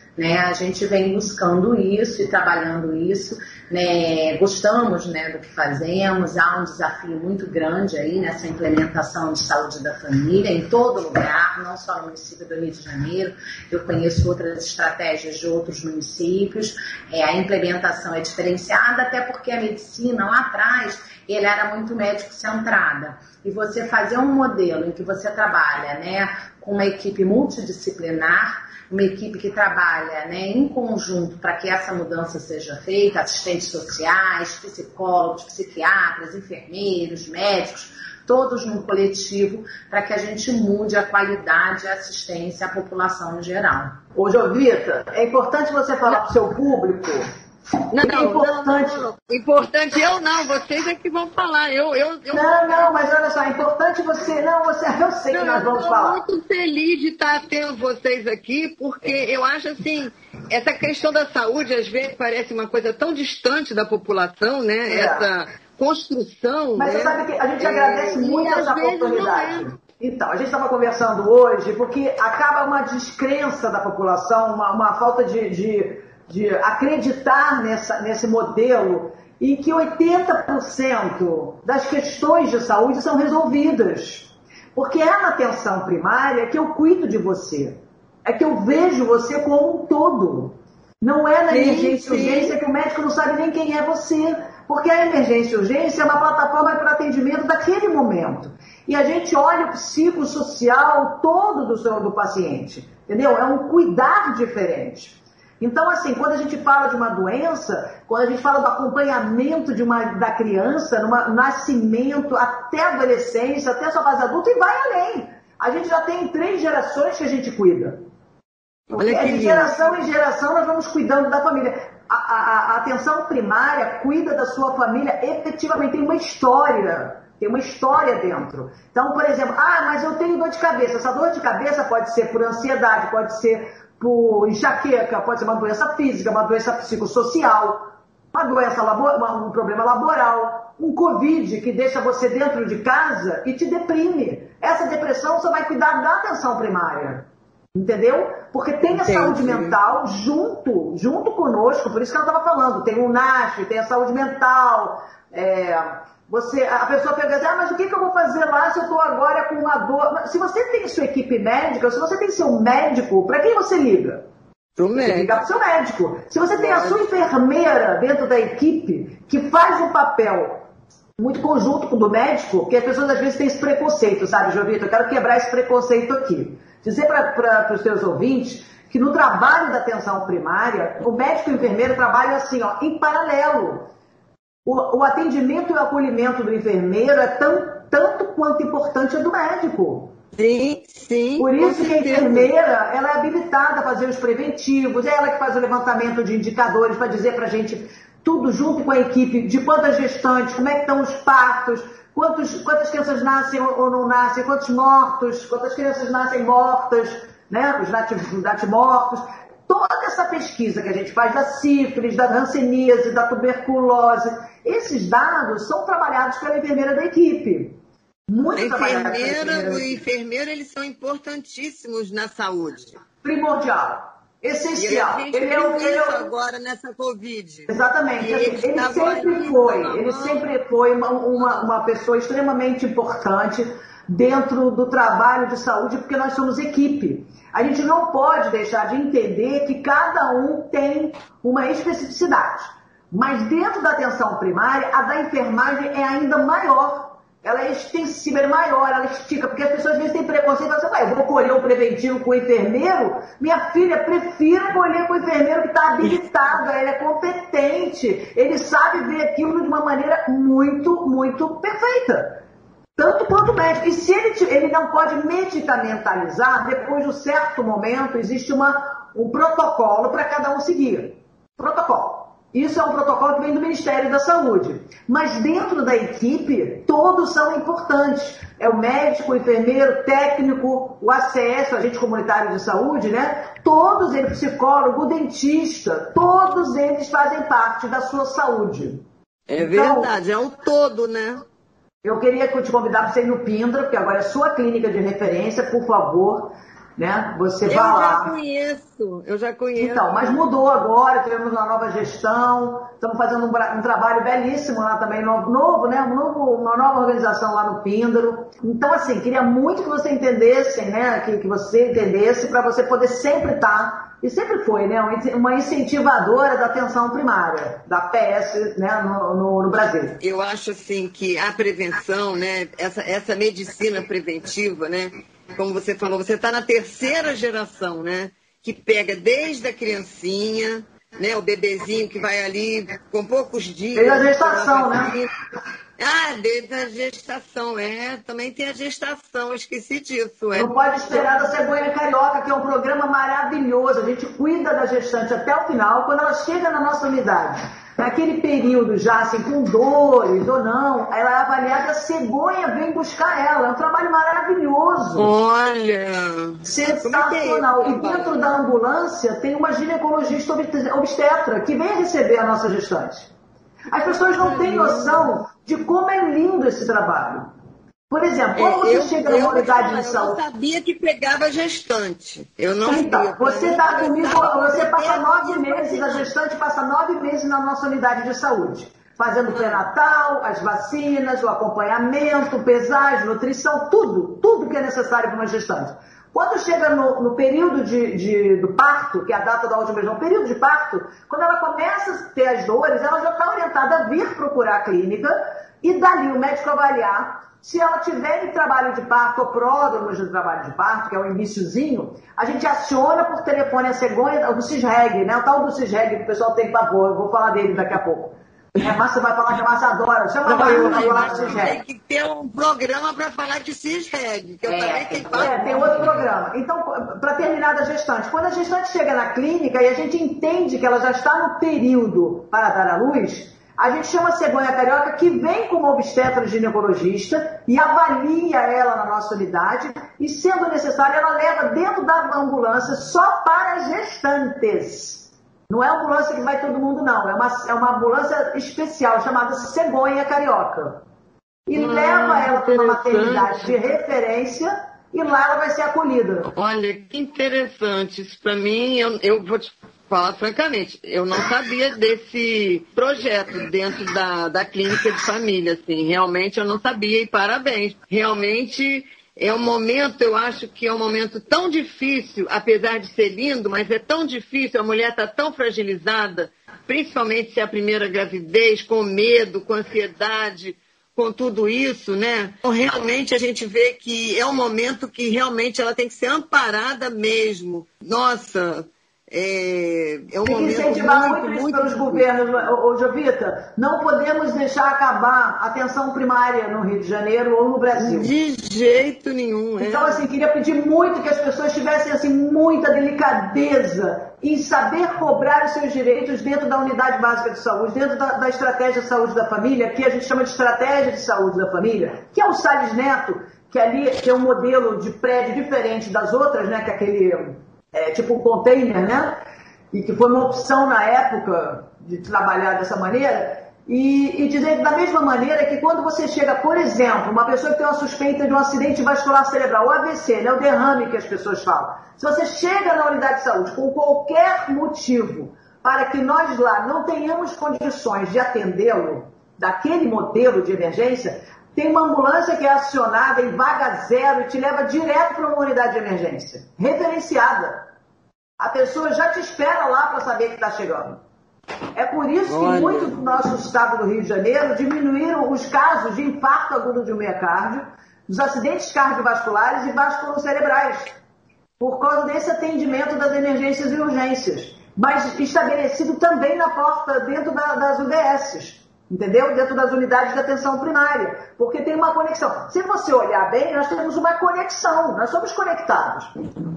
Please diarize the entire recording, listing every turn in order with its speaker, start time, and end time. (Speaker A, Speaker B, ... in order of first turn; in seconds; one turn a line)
Speaker A: 0.2-44.0
Speaker B: 44.1-47.3
Speaker C: 47.9-52.9
Speaker B: 47.9-49.1
Speaker B: 52.3-56.2
Speaker C: 55.3-69.7
Speaker B: 64.9-65.3
Speaker B: 66.8-118.0
Speaker C: 91.5-92.6
Speaker B: 118.9-164.3
Speaker C: 118.9-119.8
Speaker C: 148.9-149.8
Speaker C: 164.8-165.4
Speaker B: 165.0-170.7
Speaker C: 166.6-167.0
Speaker B: 171.2-183.9
Speaker B: 184.7-190.2
Speaker C: 190.3-192.5
Speaker B: 191.4-220.0
Speaker C: 218.6-223.0
Speaker B: 223.2-226.3
Speaker C: 224.8-230.5
Speaker B: 227.7-262.4
Speaker B: 263.0-289.1
Speaker C: 289.5-291.4
Speaker B: 289.6-290.1
Speaker B: 292.0-298.3
Speaker C: 297.7-300.5
Speaker B: 299.8-320.2
Speaker C: 320.2-335.3
Speaker B: 333.9-335.1
Speaker C: 336.0-341.2
Speaker B: 340.5-355.3
Speaker C: 355.1-358.5
Speaker B: 356.6-363.3
Speaker B: 363.9-367.5
Speaker C: 364.3-365.3
Speaker B: 368.1-370.4
Speaker C: 368.6-376.3
Speaker B: 372.9-411.8
Speaker C: 379.5-379.8
Speaker C: 410.4-416.2
Speaker A: 414.7-416.0
Speaker B: 415.3-441.1
Speaker B: 441.7-446.5
Speaker C: 441.7-443.8
Speaker C: 446.6-482.3
Speaker B: 480.4-488.3
Speaker C: 488.0-490.2
Speaker B: 489.8-509.4
Speaker B: 509.9-537.9
Speaker B: 538.6-541.2
Speaker B: 542.0-551.2
Speaker C: 542.5-543.2
Speaker B: 551.8-566.3